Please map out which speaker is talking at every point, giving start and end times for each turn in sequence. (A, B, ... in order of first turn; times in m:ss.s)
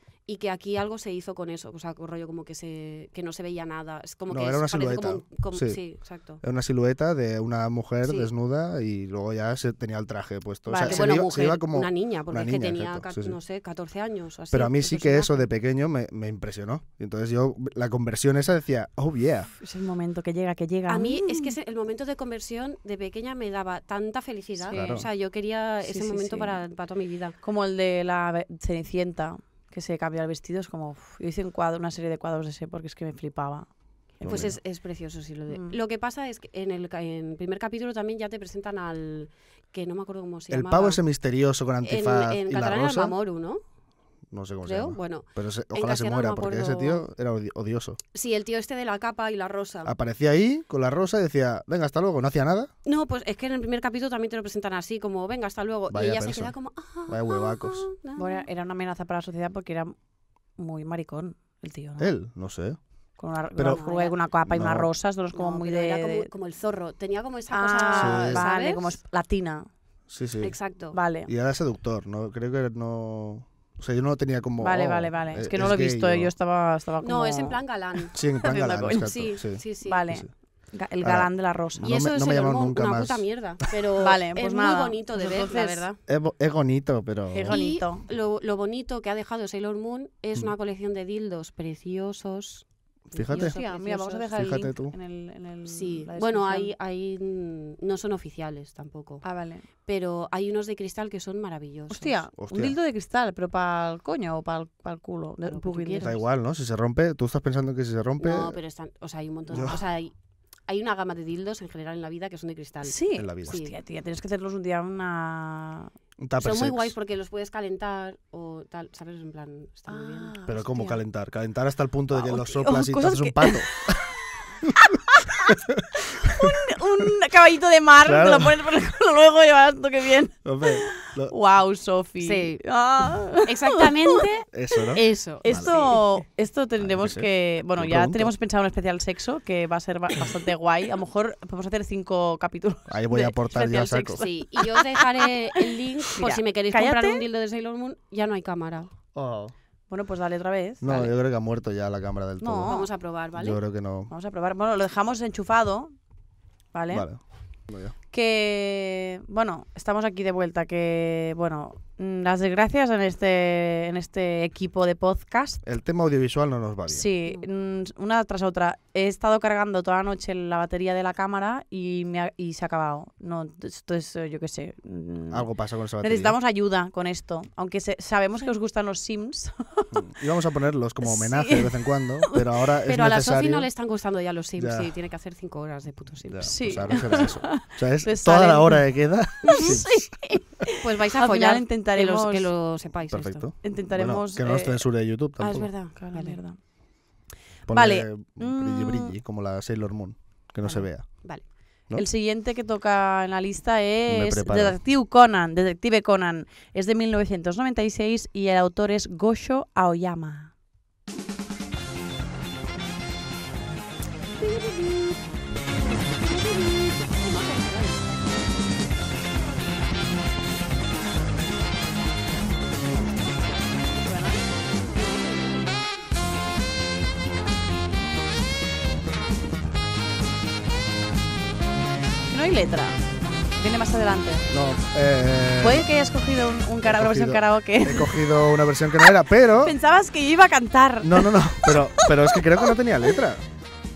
0:00.3-0:06.4 A
0:04.3-0:05.8 B
0:06.4-0:13.4 B
0:08.0-0:08.3 A
0:10.7-0:11.0 C
0:10.8-0:15.5 A
0:14.5-0:19.5 B
0:19.6-0:21.5 C
0:20.9-0:27.4 A
0:24.6-0:24.9 C
0:24.7-0:25.1 B
0:25.8-0:26.6 C
0:27.4-0:33.7 C
0:34.2-0:34.5 C
0:34.2-0:34.5 B
0:34.2-0:41.0 A
0:35.5-0:35.8 C
0:40.5-0:43.1 B
0:41.8-0:43.6 A
0:44.3-0:48.0 B
0:44.6-0:47.1 A
0:48.1-0:49.9 A
0:49.8-0:52.7 B
0:52.8-0:58.5 A
0:55.9-0:56.5 B
0:57.1-0:57.8 B
0:58.2-0:59.9 C
1:00.6-1:02.1 C
1:02.0-1:02.8 B
1:03.2-1:06.3 C
1:03.6-1:04.2 A
1:04.5-1:04.9 B
1:05.3-1:09.0 A
1:07.5-1:09.7 C
1:07.9-1:08.4 B
1:10.1-1:10.5 B
1:10.4-1:11.0 A
1:10.9-1:11.3 C
1:11.3-1:16.3 B
1:14.6-1:17.6 C
1:17.0-1:18.2 A
1:18.1-1:20.3 B
1:18.4-1:19.1 C
1:18.8-1:20.0 A
1:19.8-1:21.9 C
1:21.0-1:23.2 B
1:21.8-1:25.9 A
1:24.0-1:25.9 C
1:26.1-1:27.6 B
1:27.3-1:28.1 C
1:27.5-1:34.5 A
1:33.1-1:33.6 B
1:33.3-1:36.7 C
1:34.3-1:35.0 B
1:35.7-1:39.2 A
1:39.2-1:39.6 C
1:39.8-1:42.2 A
1:41.9-1:46.2 C
1:42.4-1:42.8 B
1:45.4-1:46.2 A
1:46.0-1:48.6 B
1:48.2-1:50.1 A
1:49.5-1:49.8 B
1:50.7-1:53.8 A
1:52.8-1:55.9 C
1:53.2-1:53.6 B
1:56.2-1:56.9 B
1:56.4-2:00.8 A
1:59.9-2:01.0 C
2:00.5-2:04.0 B
2:02.1-2:03.8 C
2:04.6-2:07.0 B
2:04.8-2:14.2 C
2:08.0-2:08.6 B
2:10.4-2:11.3 B
2:12.2-2:12.6 A
2:13.4-2:16.2 A
2:14.5-2:15.8 B
2:15.4-2:25.0 C
2:16.8-2:18.3 B
2:22.9-2:24.2 B
2:24.2-2:28.9 A
2:25.6-2:27.2 C
2:29.1-2:29.5 B
2:29.9-2:31.1 C
2:30.8-2:32.7 B
2:32.4-2:32.9 C
2:32.7-2:33.6 A
2:33.3-2:34.1 B
2:34.1-2:35.9 C
2:36.7-2:37.0 C
2:36.9-2:37.9 B
2:38.1-2:45.6 C
2:45.6-2:47.1 B
2:46.9-2:55.5 C
2:55.3-2:56.4 B
2:56.0-3:00.0 C
2:59.9-3:03.7 B
3:01.0-3:02.4 C
3:02.8-3:07.2 A
3:04.6-3:04.9 B
3:06.3-3:10.1 B
3:06.4-3:08.8 C
3:09.4-3:12.5 C
3:09.4-3:09.8 A
3:10.8-3:13.5 A
3:13.1-3:15.7 B
3:13.6-3:14.9 C
3:15.4-3:16.6 C
3:15.5-3:16.4 A
3:17.7-3:19.1 C
3:17.7-3:21.2 B
3:21.9-3:30.5 C
3:24.1-3:24.8 B
3:34.4-3:35.1 C
3:35.9-3:38.3 A
3:44.0-3:44.4 C
3:44.9-3:45.7 A
3:52.3-3:53.0 C
3:53.6-3:54.5 C
3:54.5-3:55.9 B
3:55.6-3:58.2 C
3:56.8-3:59.8 B
3:59.0-4:03.1 C
4:01.0-4:03.4 B